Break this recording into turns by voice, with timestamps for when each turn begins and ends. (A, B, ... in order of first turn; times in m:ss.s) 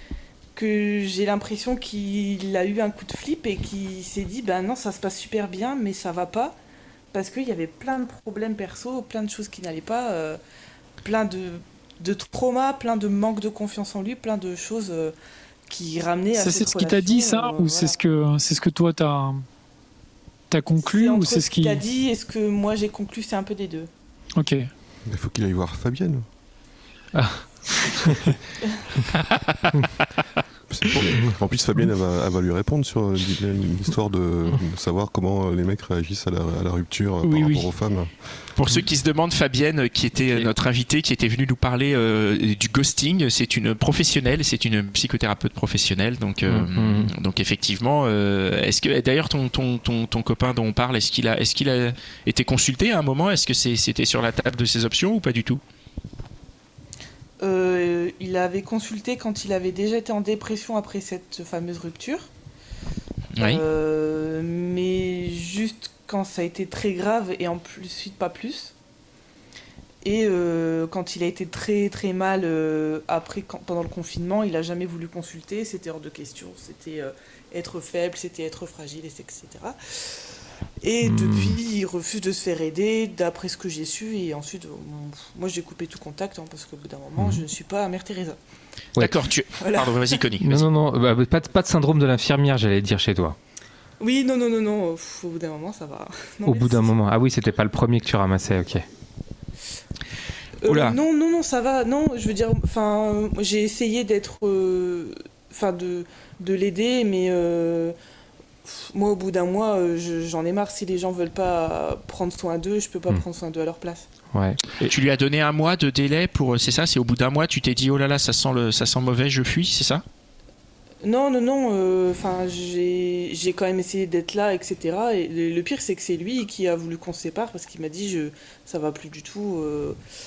0:00.6-0:06.6 A
0:07.1-0:10.4 A
0:11.0-0:15.1 A
0:15.7-0:18.0 A
0:16.3-0:19.4 B
0:20.5-0:21.8 B
0:20.8-0:23.9 A
0:24.4-0:24.7 B
0:25.1-0:26.2 C
0:27.1-0:28.3 D
0:30.7-0:38.3 C
0:37.2-0:37.7 B
0:38.6-0:55.6 E
0:46.5-0:47.1 D
0:57.4-1:02.3 A
1:03.4-1:03.6 E
1:03.4-1:08.7 A
1:10.0-1:19.8 A
1:20.8-1:28.4 A
1:21.0-1:21.5 D
1:29.0-1:30.6 E
1:29.6-1:30.2 A
1:30.4-1:33.4 D
1:34.0-1:36.9 A
1:36.4-1:38.8 D
1:40.6-1:47.9 A
1:40.7-1:41.0 E
1:48.6-1:54.1 A
1:54.3-1:54.9 D
1:54.8-2:00.0 E
2:01.0-2:10.0 A